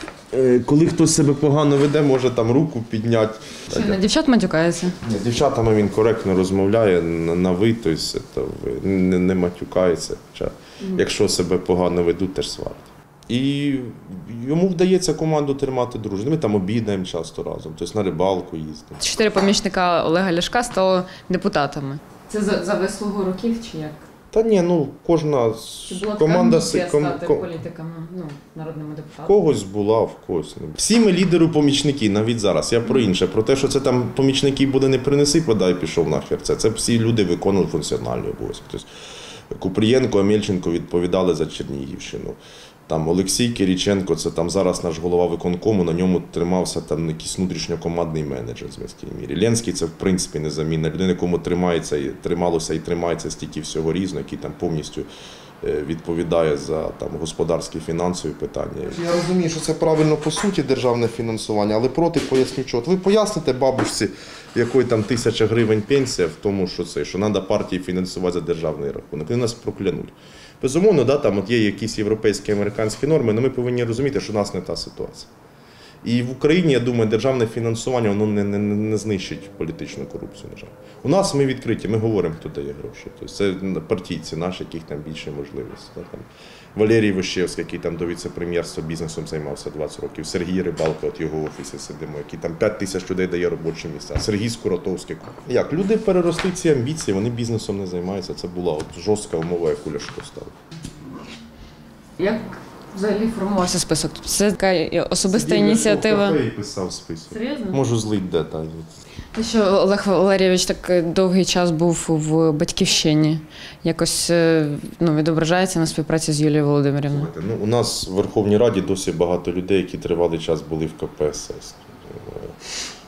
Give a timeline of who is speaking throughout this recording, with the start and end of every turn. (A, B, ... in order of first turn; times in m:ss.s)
0:00.3-0:04.0 A
0:03.7-0:05.0 B
0:05.0-0:19.0 A
0:19.0-0:24.0 B
0:24.3-0:27.5 A
0:25.9-0:29.4 B
0:29.3-0:38.9 A
0:39.5-0:55.1 A
0:55.6-1:15.3 A
1:16.0-1:40.5 A
1:42.2-1:46.4 B
1:45.3-1:49.0 A
1:47.3-1:47.8 B
1:49.3-1:57.3 B
1:57.1-2:02.5 A